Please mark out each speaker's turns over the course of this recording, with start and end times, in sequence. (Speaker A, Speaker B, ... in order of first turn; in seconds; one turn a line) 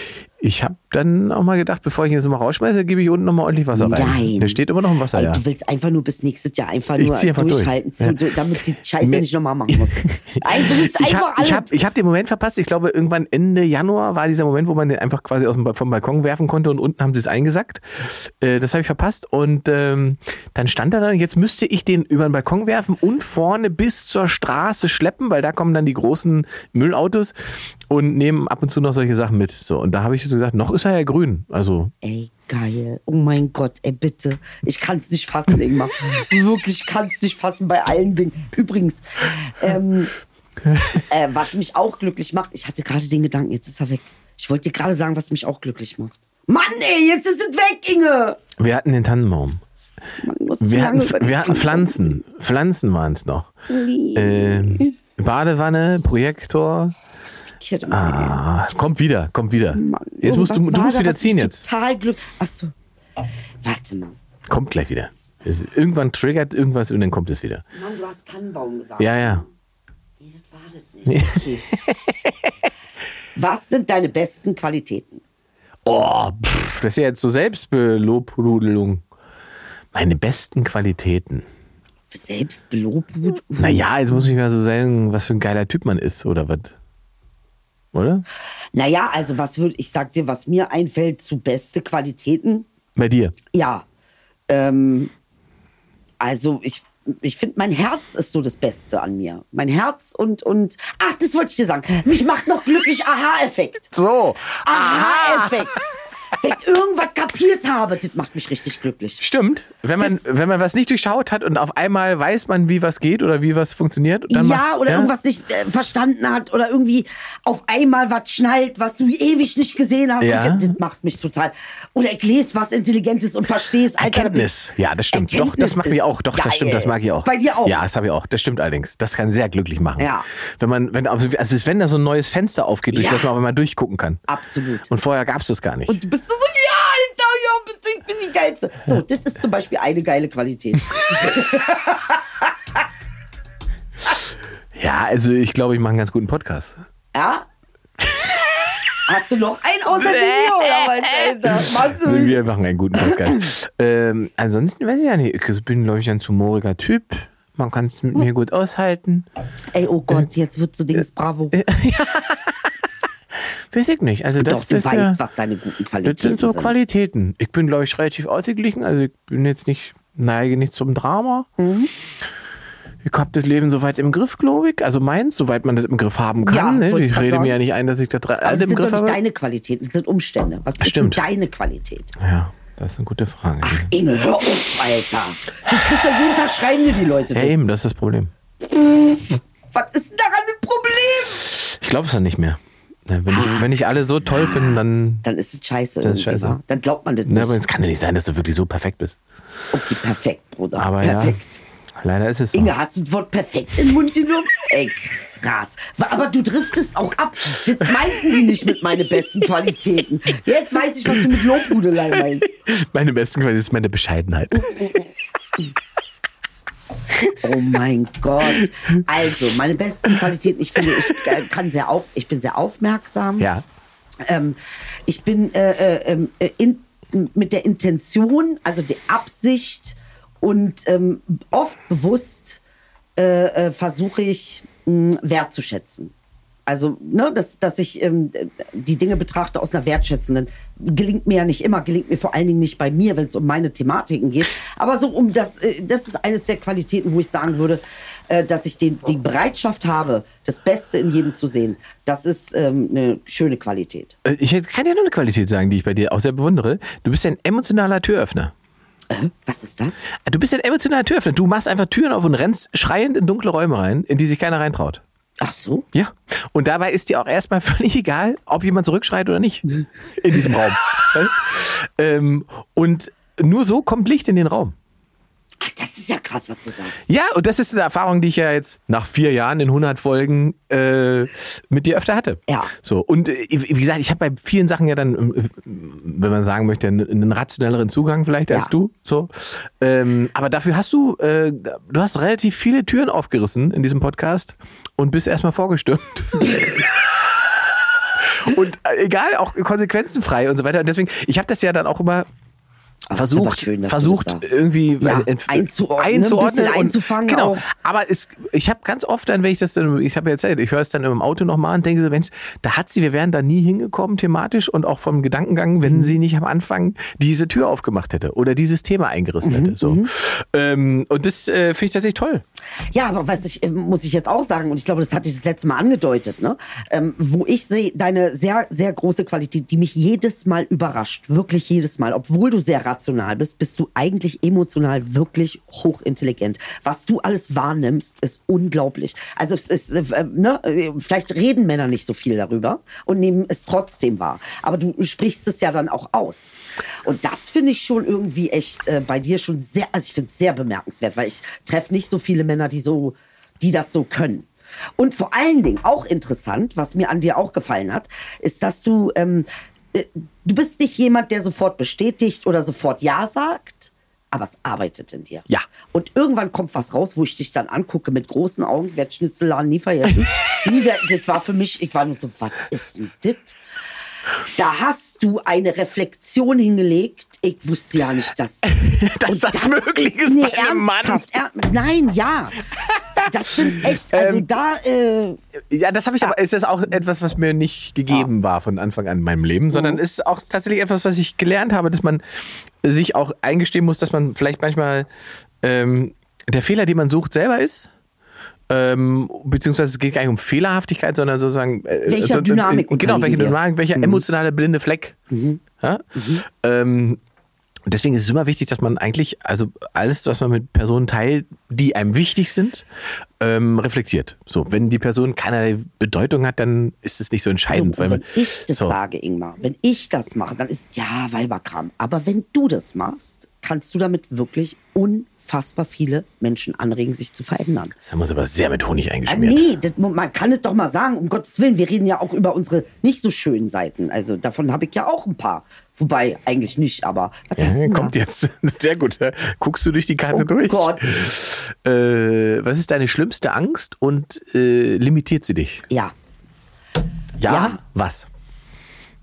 Speaker A: 0.4-5.4
Speaker B: 3.7-11.7
Speaker A: 7.0-8.2
Speaker A: 9.0-27.3
Speaker A: 27.9-31.9
Speaker B: 32.0-40.1
Speaker A: 40.6-41.0
Speaker B: 40.9-48.4
Speaker A: 48.6-49.6
Speaker B: 50.2-52.1
Speaker A: 50.6-53.5
Speaker B: 53.7-54.9
Speaker A: 54.1-56.9
Speaker B: 57.3-58.4
Speaker A: 57.9-61.6
Speaker B: 59.7-62.7
Speaker B: 63.6-64.2
Speaker A: 64.5-67.6
Speaker B: 67.7-69.5
Speaker A: 69.0-69.4
Speaker B: 70.2-71.7
Speaker A: 71.1-72.5
Speaker B: 73.3-75.2
Speaker A: 75.8-79.0
Speaker A: 79.9-81.5
Speaker B: 82.1-83.9
Speaker A: 83.6-86.7
Speaker A: 87.9-88.2
Speaker B: 88.7-92.7
Speaker A: 93.0-93.3
Speaker B: 93.5-93.8
Speaker B: 94.5-95.1
Speaker B: 96.2-103.9
Speaker A: 103.9-105.8
Speaker B: 104.6-109.2
Speaker A: 109.2-115.1
Speaker B: 110.0-110.2
Speaker B: 114.3-124.5
Speaker A: 120.2-120.8
Speaker A: 124.0-134.2
Speaker B: 125.1-127.8
Speaker B: 130.0-130.2
Speaker B: 132.9-133.3
Speaker B: 134.3-134.9
Speaker A: 134.9-136.0
Speaker B: 135.9-142.5
Speaker A: 144.7-146.7
Speaker B: 147.1-147.5
Speaker B: 149.1-152.4
Speaker A: 149.9-159.3
Speaker B: 153.0-153.3
Speaker B: 159.7-161.6
Speaker A: 161.5-162.7
Speaker A: 163.7-165.2
Speaker B: 164.3-166.8
Speaker A: 166.0-171.5
Speaker B: 171.6-171.9
Speaker A: 173.0-179.2
Speaker B: 176.4-177.6
Speaker B: 178.4-182.1
Speaker A: 180.8-181.2
Speaker A: 182.2-183.9
Speaker B: 183.6-187.7
Speaker A: 187.3-188.3
Speaker B: 189.7-191.4
Speaker A: 191.5-195.2
Speaker B: 193.3-193.7
Speaker B: 194.3-197.6
Speaker A: 196.0-196.6
Speaker A: 197.2-199.2
Speaker B: 199.7-201.6
Speaker A: 200.7-201.4
Speaker A: 202.0-202.7
Speaker B: 202.5-212.5
Speaker A: 211.1-211.4
Speaker A: 212.1-215.0
Speaker B: 214.7-215.0
Speaker A: 217.1-217.3
Speaker B: 217.4-223.5
Speaker A: 221.0-221.3
Speaker B: 224.2-232.6
Speaker B: 233.2-236.1
Speaker B: 236.7-254.2
Speaker A: 254.2-258.5
Speaker B: 259.1-260.1
Speaker A: 260.2-265.0
Speaker B: 265.4-265.9
Speaker A: 265.9-274.7
Speaker B: 275.6-277.1
Speaker A: 277.1-296.9
Speaker A: 298.2-302.3
Speaker B: 303.1-307.6
Speaker A: 303.1-322.4
Speaker B: 315.9-316.1
Speaker B: 319.4-320.1
Speaker B: 322.9-373.6
Speaker B: 374.5-378.7
Speaker A: 378.7-381.2
Speaker B: 379.2-382.6
Speaker B: 383.1-385.4
Speaker A: 383.6-384.5
Speaker A: 385.7-392.2
Speaker B: 389.7-390.0
Speaker A: 392.8-395.1
Speaker A: 395.6-397.9
Speaker A: 398.7-405.2
Speaker B: 402.1-404.2
Speaker B: 405.3-405.6
Speaker A: 405.8-407.2
Speaker B: 406.1-406.4
Speaker A: 407.9-412.9
Speaker A: 413.4-418.9
Speaker B: 417.7-427.9
Speaker A: 428.0-429.7
Speaker B: 429.3-438.1
Speaker A: 437.6-445.8
Speaker B: 440.3-441.2
Speaker B: 445.9-446.1
Speaker A: 447.4-448.3
Speaker B: 447.5-447.8